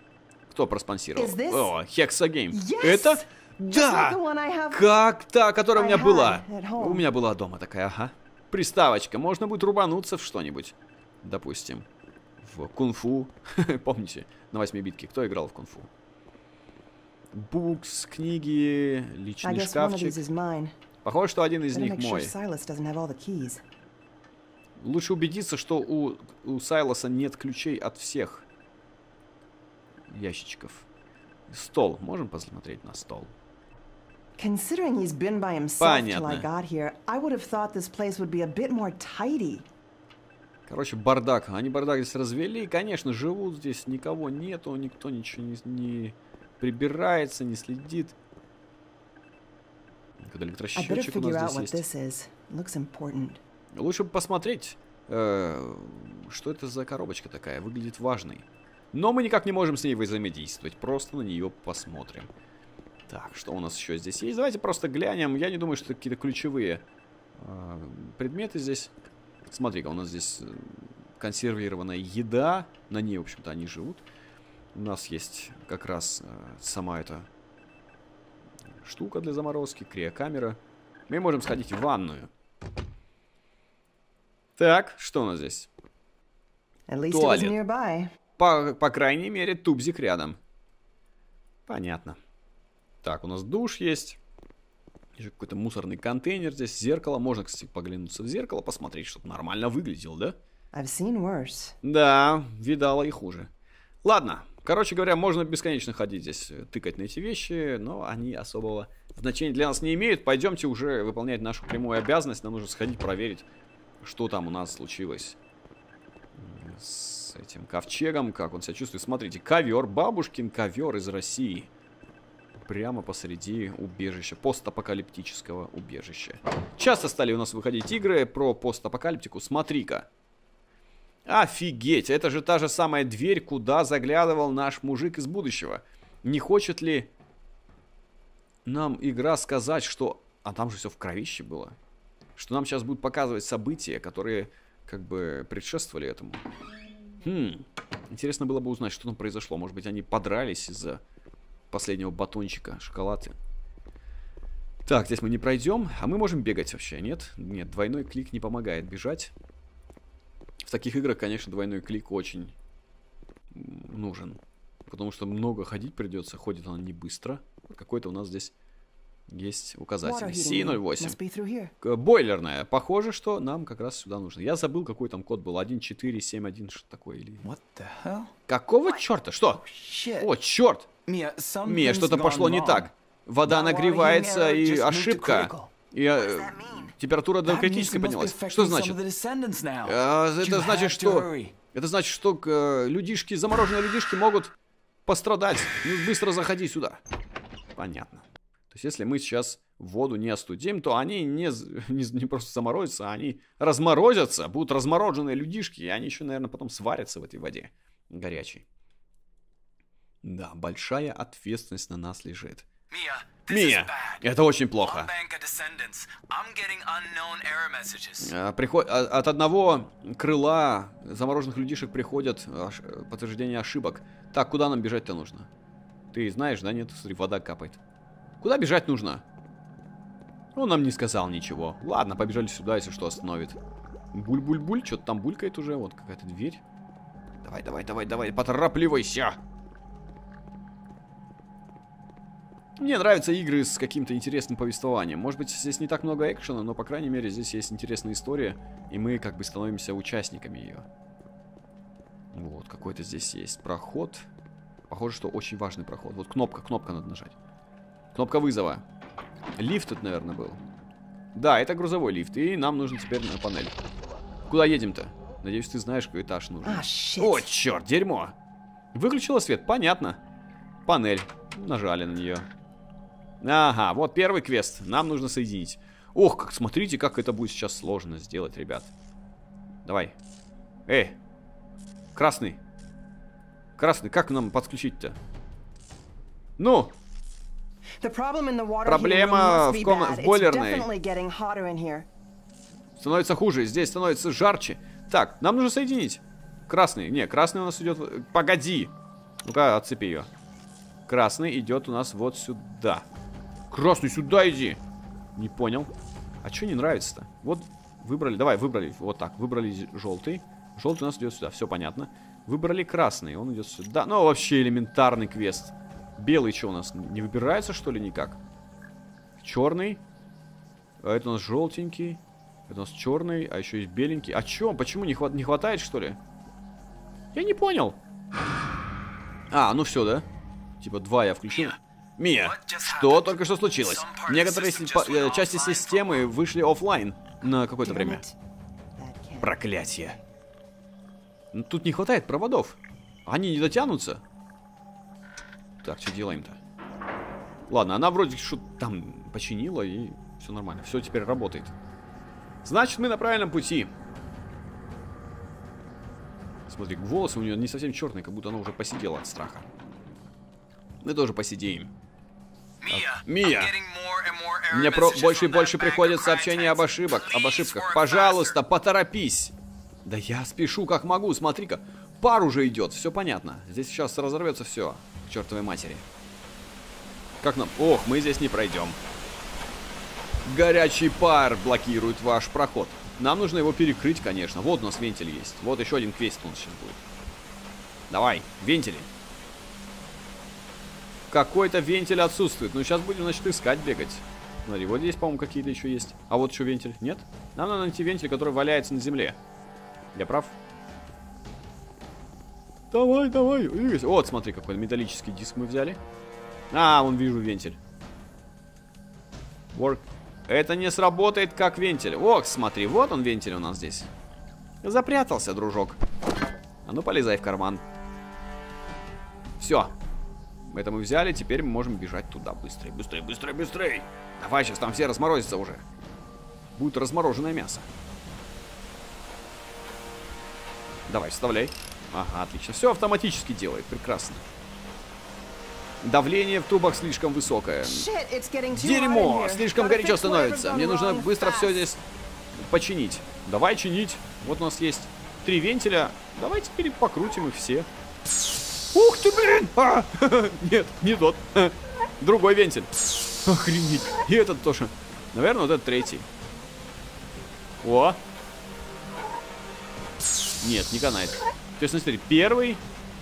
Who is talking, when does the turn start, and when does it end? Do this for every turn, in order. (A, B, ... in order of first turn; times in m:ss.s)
0:00.5-0:11.9 A
0:01.2-0:01.7 B
0:02.5-0:04.9 B
0:05.7-0:07.1 B
0:12.4-0:15.9 A
0:17.3-0:20.2 A
0:19.4-0:20.7 B
0:21.0-0:22.3 A
0:21.7-0:23.6 B
0:24.8-0:28.4 A
0:30.1-0:30.9 A
0:31.5-0:33.3 A
0:34.4-0:39.7 B
0:35.8-0:36.5 A
0:40.7-0:48.2 A
0:50.2-0:51.8 A
0:50.7-0:53.4 B
0:53.7-1:02.3 A
1:03.1-1:06.8 A
1:07.4-1:08.9 A
1:09.4-1:14.0 A
1:14.7-1:17.3 A
1:18.8-1:22.3 A
1:24.6-1:25.7 A
1:26.9-1:28.1 B
1:27.1-1:27.6 A
1:28.4-1:30.4 A
1:31.7-1:32.2 A
1:33.0-1:34.2 A
1:35.2-1:40.4 A
1:40.7-1:41.7 B
1:41.8-1:43.5 A
1:44.0-1:53.4 A
1:54.0-1:55.4 A
1:56.4-2:01.7 A
2:02.6-2:10.1 A
2:11.2-2:17.1 A
2:18.6-2:21.8 A
2:22.4-2:26.4 A
2:27.2-2:31.0 A
2:31.7-2:33.4 A
2:34.9-2:39.3 A
2:40.6-2:42.5 A
2:43.5-2:48.5 A
2:49.3-2:51.2 A
2:50.0-2:51.7 B
2:51.8-2:57.4 A
2:57.4-2:58.3 C
2:58.5-2:59.6 A
2:59.7-3:00.2 C
3:00.2-3:00.9 A
3:01.0-3:02.9 C
3:01.6-3:09.0 A
3:03.4-3:05.7 C
3:06.2-3:06.9 B
3:07.4-3:11.5 C
3:09.8-3:14.5 A
3:15.0-3:17.0 A
3:17.8-3:28.6 A
3:30.2-3:32.7 A
3:32.9-3:34.2 C
3:33.5-3:35.1 A
3:34.8-3:38.3 C
3:38.2-3:45.5 A
3:46.1-3:47.8 A
3:48.4-3:49.2 A
3:50.5-3:53.6 A
3:54.1-3:56.6 A
3:57.4-3:59.4 A
4:02.8-4:10.9 A
4:12.3-4:14.3 A
4:14.9-4:17.3 A
4:18.1-4:18.8 A
4:19.6-4:20.6 A
4:21.3-4:23.7 A
4:24.5-4:28.3 A
4:26.6-4:27.4 B
4:28.9-4:30.2 A
4:30.9-4:32.5 A
4:33.4-4:38.9 A
4:39.8-4:40.1 A
4:40.9-4:41.2 A
4:42.1-4:42.6 A
4:43.8-4:45.2 A
4:46.6-4:46.9 A
4:48.0-4:52.1 B
4:48.8-4:50.9 A
4:53.0-4:58.9 A
4:59.4-5:00.3 A
5:01.1-5:03.0 A
5:03.7-5:04.8 A
5:05.4-5:05.9 A
5:06.4-5:18.4 A
5:19.4-5:20.0 A
5:21.0-5:26.2 A
5:27.3-5:28.0 A
5:29.5-5:30.2 A
5:30.8-5:38.2 A
5:32.5-5:33.2 D
5:34.0-5:36.1 D
5:37.8-5:38.3 B
5:39.0-5:40.2 B
5:39.4-5:40.2 A
5:41.5-5:44.2 A
5:45.8-5:46.6 A
5:47.7-5:51.7 A
5:52.6-5:53.9 A
5:56.7-5:59.7 A
6:01.0-6:01.9 A
6:02.8-6:08.6 D
6:02.9-6:03.8 A
6:04.7-6:09.5 A
6:10.0-6:16.0 A
6:17.4-6:19.0 A
6:20.4-6:27.0 A
6:28.1-6:29.1 A
6:31.3-6:39.4 A
6:40.1-6:40.6 A
6:42.9-6:46.0 A
6:46.7-6:47.8 A
6:49.7-6:54.1 A
6:54.8-6:56.0 A
6:56.8-6:57.8 A
6:59.6-6:59.9 A
7:00.7-7:05.8 A
7:06.7-7:07.9 A
7:11.1-7:14.4 A
7:16.0-7:18.0 A
7:17.8-7:21.8 B
7:18.7-7:22.0 A
7:22.5-7:27.9 A
7:28.9-7:36.2 A
7:37.8-7:38.2 A
7:40.6-7:42.8 A